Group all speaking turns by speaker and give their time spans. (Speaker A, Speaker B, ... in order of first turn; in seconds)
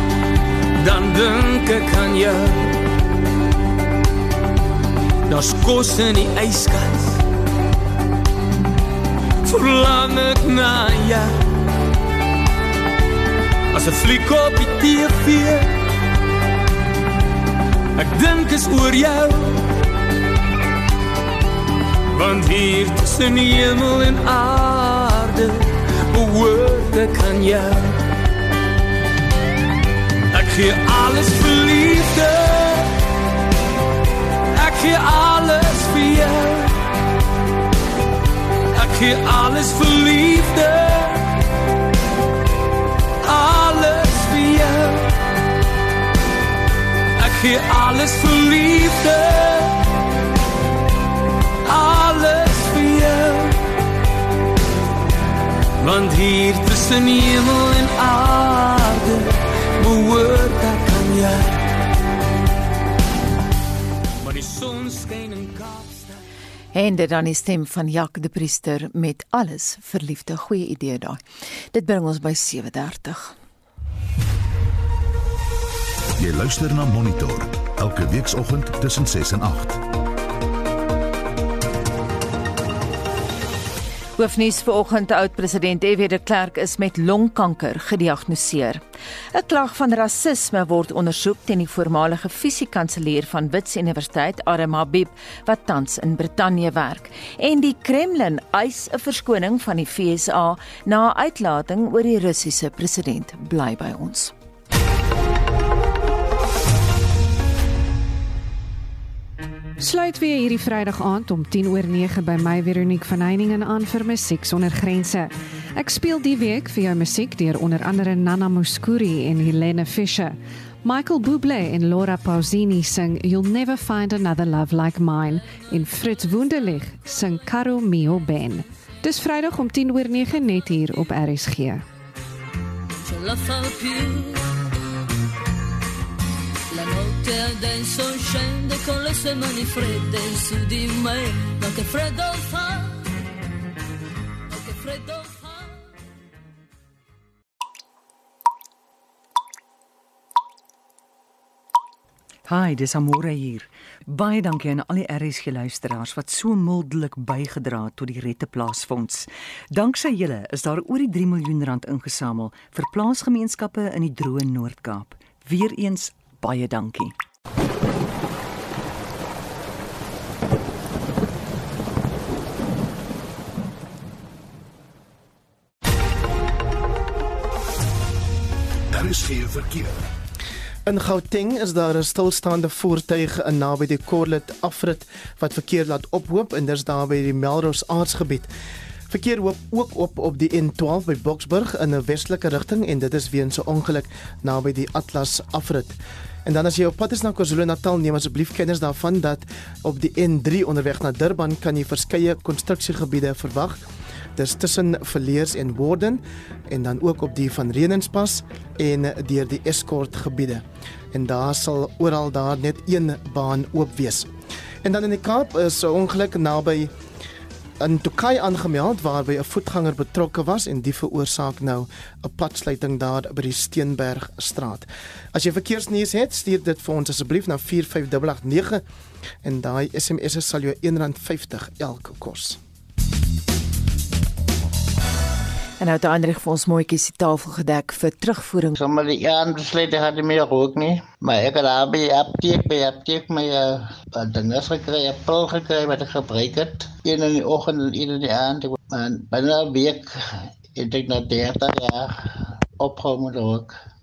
Speaker A: 0.8-2.8, 5.3-7.2, 9.4-11.3, 13.7-15.8, 18.0-19.6, 22.1-28.0, 30.3-32.9, 34.5-36.8, 38.7-41.3, 43.2-45.1, 47.2-49.8, 51.7-53.6, 55.8-61.6, 64.2-66.2
Speaker B: 66.7-73.3, 84.2-88.8, 89.3-104.3, 235.8-238.7
Speaker C: 76.2-79.8, 178.9-180.0
Speaker D: 109.8-131.8
Speaker E: 133.0-134.5, 136.7-143.1, 144.5-145.9
Speaker F: 152.5-167.2
Speaker G: 180.9-188.5, 189.1-203.8, 204.4-214.3, 214.8-216.9, 217.8-228.8, 229.4-232.6
Speaker H: 238.7-250.1, 250.8-252.1, 252.8-253.7